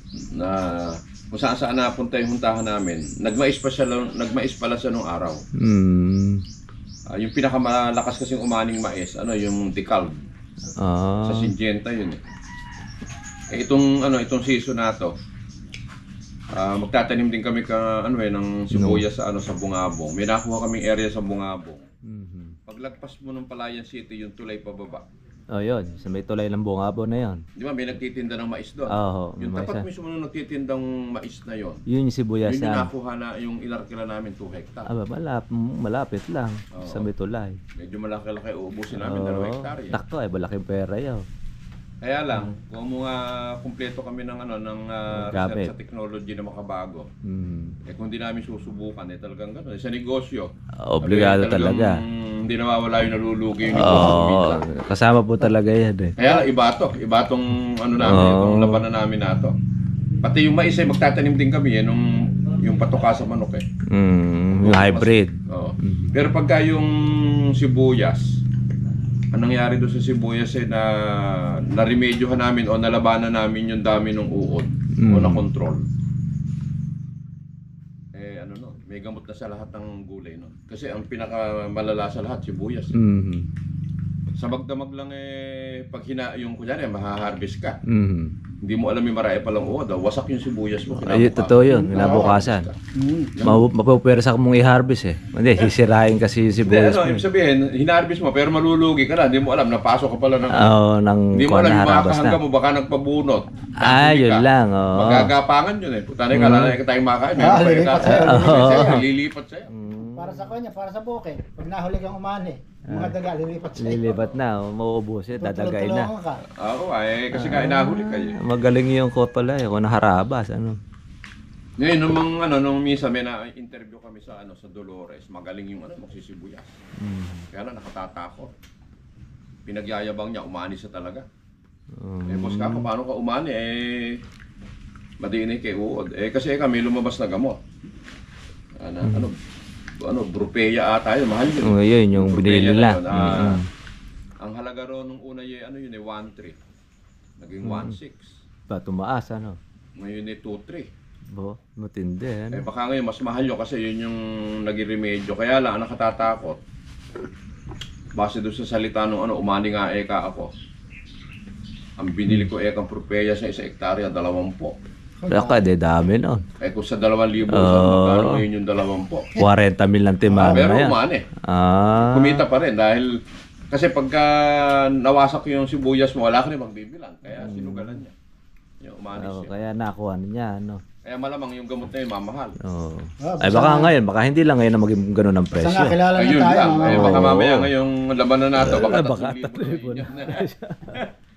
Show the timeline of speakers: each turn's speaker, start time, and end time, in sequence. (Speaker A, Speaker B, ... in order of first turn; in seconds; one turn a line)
Speaker A: 0.3-5.4
Speaker B: 5.6-6.4
Speaker A: 7.1-10.2
Speaker B: 10.8-11.5
Speaker A: 11.3-12.2
Speaker A: 13.5-15.1
Speaker A: 16.5-21.9
Speaker B: 18.7-19.0
Speaker B: 22.1-22.6
Speaker A: 22.7-25.1
Speaker B: 25.5-27.4
Speaker A: 27.6-31.8
Speaker B: 28.9-29.9
Speaker B: 31.9-32.9
Speaker A: 32.4-34.9
Speaker B: 34.9-37.6
Speaker A: 36.7-37.1
Speaker A: 37.8-40.0
Speaker B: 39.0-41.3
Speaker A: 42.0-47.1
Speaker B: 45.1-45.7
Speaker B: 47.2-47.8
Speaker A: 47.9-54.6
Speaker B: 50.8-52.0
Speaker B: 53.7-56.2
Speaker A: 56.2-59.5
Speaker B: 58.0-58.8
Speaker A: 60.2-63.6
Speaker B: 63.9-66.1
Speaker A: 64.5-68.4
Speaker A: 69.3-75.9
Speaker B: 74.9-75.5
Speaker A: 78.1-83.0
Speaker B: 82.9-83.5
Speaker A: 84.3-87.8
Speaker B: 87.8-88.3
Speaker A: 88.6-92.8
Speaker B: 91.1-92.7
Speaker C: 91.7-92.3
Speaker C: 92.9-93.3
Speaker A: 93.4-93.7
Speaker B: 93.4-97.2
Speaker A: 96.7-100.8
Speaker B: 100.5-102.4
Speaker A: 101.3-109.7
Speaker B: 103.8-105.3
Speaker B: 106.3-106.8
Speaker C: 107.4-109.0
Speaker B: 108.0-109.0
Speaker B: 109.7-110.5
Speaker C: 110.2-114.1
Speaker B: 112.9-113.2
Speaker B: 113.8-116.1
Speaker A: 114.1-114.4
Speaker C: 115.4-116.4
Speaker A: 116.5-118.4
Speaker B: 117.3-120.8
Speaker A: 121.8-126.7
Speaker B: 127.0-127.5
Speaker A: 127.5-128.5
Speaker A: 129.7-131.3
Speaker B: 131.9-132.9
Speaker A: 132.3-134.2
Speaker A: 135.2-137.6
Speaker A: 138.8-139.4
Speaker B: 139.0-139.3
Speaker A: 140.0-143.6
Speaker B: 141.6-143.7
Speaker A: 144.4-146.6
Speaker A: 147.4-148.4
Speaker B: 147.6-147.9
Speaker B: 148.7-149.6
Speaker A: 150.0-150.9
Speaker B: 151.3-152.7
Speaker A: 152.5-156.6
Speaker A: 158.2-160.5
Speaker A: 162.0-164.8
Speaker C: 165.2-165.6
Speaker B: 165.3-166.5
Speaker A: 166.6-169.3
Speaker B: 167.5-168.4
Speaker B: 169.4-172.4
Speaker C: 170.3-170.6
Speaker A: 170.5-171.3
Speaker A: 172.0-173.2
Speaker A: 173.7-178.1
Speaker B: 177.3-178.0
Speaker A: 178.8-179.5
Speaker B: 179.2-180.8
Speaker A: 181.0-182.6
Speaker B: 182.6-186.0
Speaker C: 183.2-183.9
Speaker C: 185.6-187.4
Speaker A: 186.1-191.1
Speaker B: 186.9-187.7
Speaker B: 188.6-191.1